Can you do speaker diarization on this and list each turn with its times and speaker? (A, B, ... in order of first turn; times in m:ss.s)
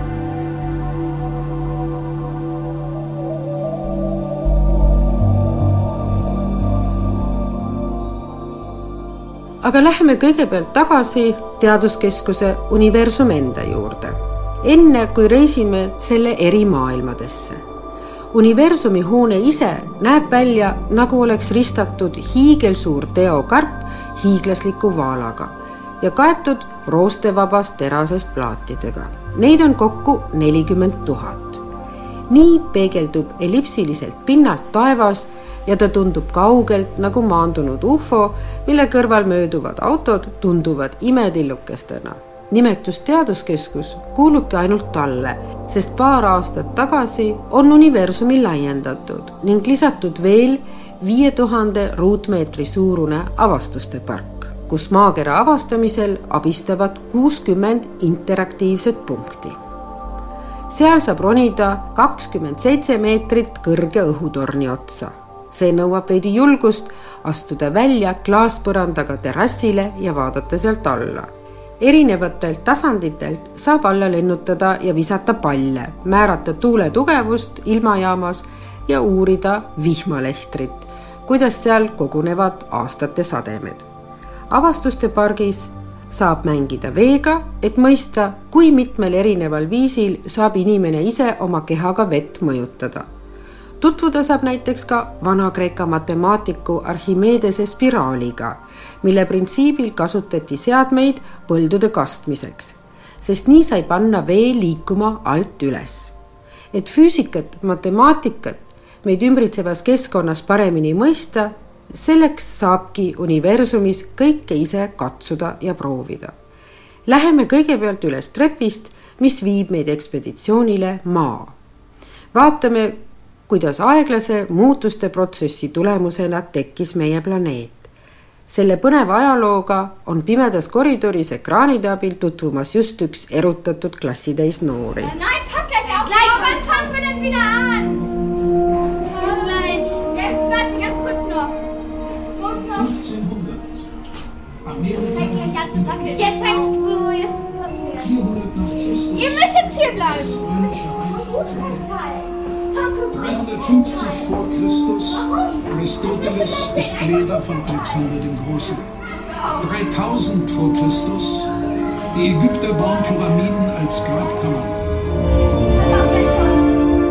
0:09.6-0:17.6 A
0:18.3-0:31.6 A
0:32.3-0:59.6 A
1:00.7-1:11.3 A
1:11.8-1:23.8 A
1:24.5-1:33.1 A
1:33.8-1:46.1 A
1:46.7-1:56.3 A
1:57.1-2:01.5 A
2:02.3-2:07.9 A
2:08.5-2:15.1 A
2:15.1-2:18.0 B
2:19.2-2:21.5 B
2:22.5-2:23.8 C
2:24.6-2:26.5 C
2:25.8-2:27.9 B
2:27.9-2:32.0 C
2:29.2-2:30.0 B
2:33.1-2:38.9 C
2:39.6-2:41.5 C
2:42.1-2:44.9 C